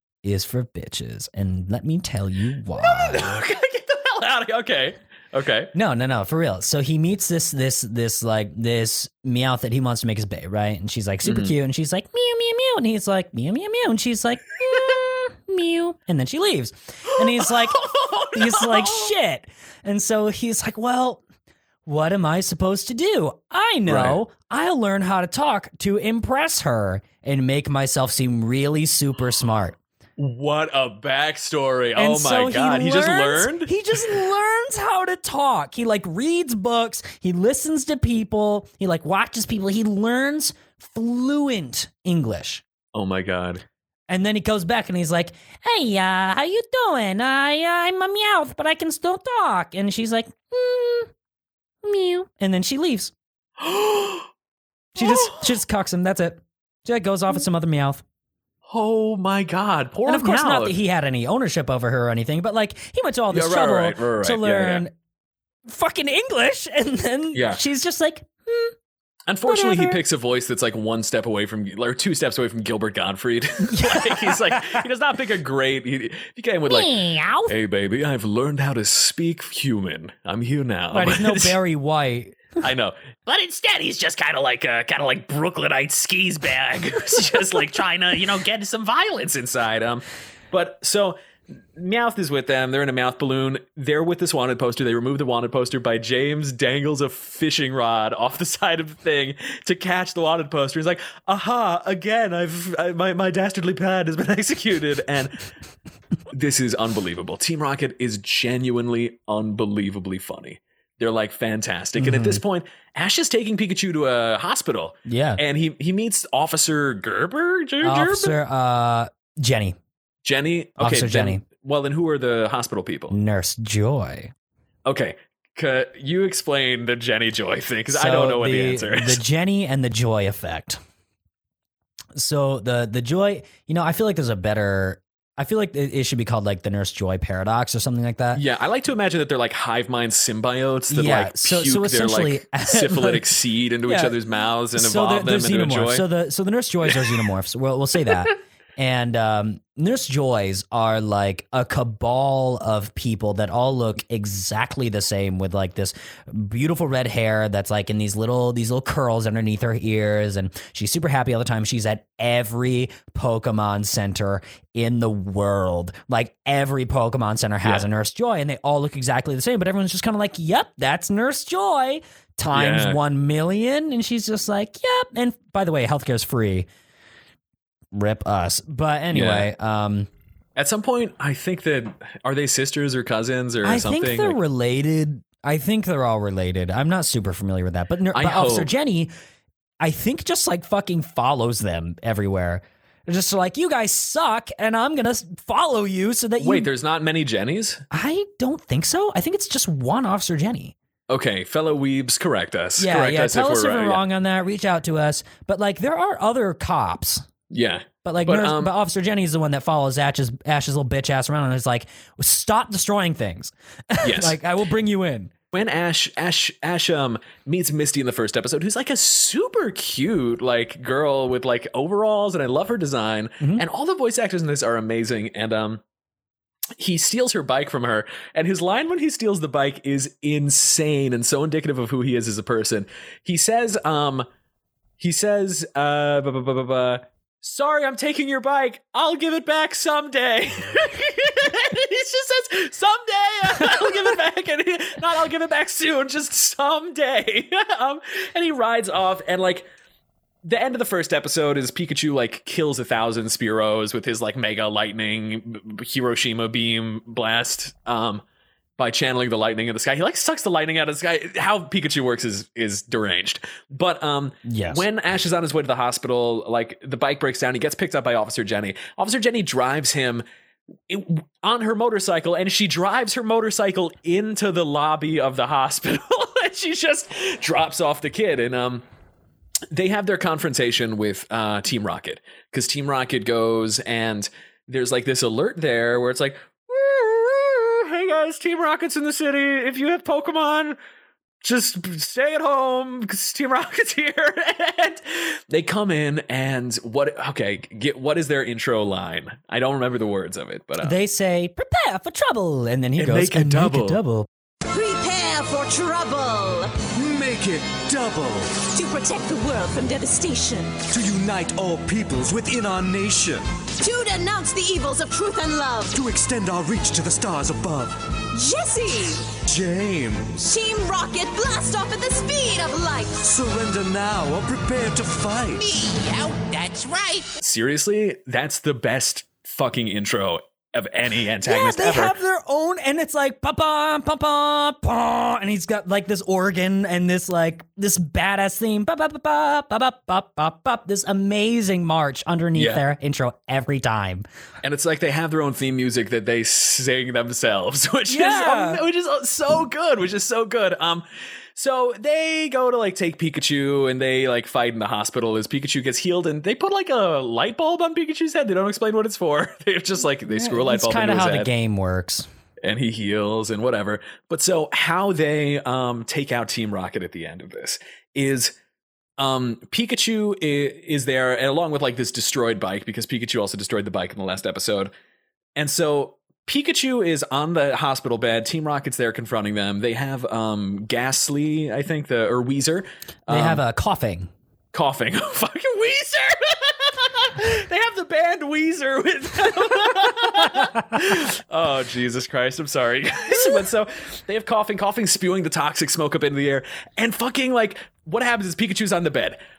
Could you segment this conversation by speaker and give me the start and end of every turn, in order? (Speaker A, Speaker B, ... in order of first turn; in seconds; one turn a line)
Speaker A: 0.2-3.4
Speaker B: 2.8-5.7
Speaker A: 5.8-21.2
Speaker B: 11.2-11.5
Speaker B: 17.1-19.1
Speaker A: 21.9-29.8
Speaker B: 23.9-24.2
Speaker B: 30.2-33.7
Speaker A: 32.0-42.6
Speaker B: 42.9-43.6
Speaker A: 44.1-51.1
Speaker A: 51.8-53.1
Speaker B: 53.6-54.3
Speaker A: 55.0-58.0
Speaker B: 55.0-55.5
Speaker B: 58.7-60.8
Speaker A: 60.1-64.9
Speaker B: 63.3-64.9
Speaker A: 65.7-68.8
Speaker B: 67.3-67.6
Speaker B: 69.3-77.0
Speaker A: 69.5-70.0
Speaker A: 73.7-74.8
Speaker A: 76.7-77.5
Speaker B: 77.5-81.6
Speaker A: 80.9-82.4
Speaker B: 82.6-91.2
Speaker B: 91.7-105.5
Speaker B: 106.3-118.4
Speaker A: 112.0-112.4
Speaker A: 115.1-115.4
Speaker A: 117.8-119.8
Speaker B: 120.2-123.2
Speaker A: 120.8-121.4
Speaker A: 123.1-124.3
Speaker B: 124.9-129.2
Speaker A: 127.9-130.8
Speaker A: 132.2-138.4
Speaker B: 138.3-146.1
Speaker A: 140.9-143.3
Speaker A: 143.9-144.2
Speaker A: 144.7-176.7
Speaker B: 172.5-173.0
Speaker A: 177.9-180.1
Speaker B: 179.1-179.5
Speaker B: 180.6-184.4
Speaker A: 183.6-189.1
Speaker B: 188.1-188.7
Speaker A: 189.8-196.7
Speaker B: 196.4-197.8
Speaker A: 197.9-200.8
Speaker B: 201.1-204.0
Speaker A: 202.8-207.3
Speaker B: 207.5-208.7
Speaker A: 208.1-215.3
Speaker B: 214.0-214.4
Speaker B: 215.5-225.8
Speaker B: 226.8-234.3
Speaker B: 235.0-249.7
Speaker B: 250.4-258.2
Speaker B: 258.8-270.2
Speaker A: 264.4-264.8
Speaker B: 270.9-278.8
Speaker B: 279.7-290.8
Speaker B: 291.4-301.0
Speaker A: 300.8-304.3
Speaker B: 303.0-304.0
Speaker C: 304.7-306.8
Speaker D: 306.9-308.6
Speaker C: 308.7-310.8
Speaker D: 310.9-313.5
Speaker C: 313.8-316.0
Speaker D: 315.9-318.0
Speaker C: 318.3-319.3
Speaker D: 319.4-320.4
Speaker C: 320.4-323.2
Speaker D: 323.2-325.6
Speaker C: 325.6-327.3
Speaker B: 327.4-332.1
Speaker A: 331.4-344.3
Speaker B: 342.6-342.9
Speaker B: 344.6-361.5
Speaker A: 348.1-348.8
Speaker A: 360.3-362.3
Speaker B: 362.6-368.6
Speaker B: 369.2-374.9
Speaker B: 375.6-383.6
Speaker A: 383.3-384.3
Speaker B: 384.7-399.4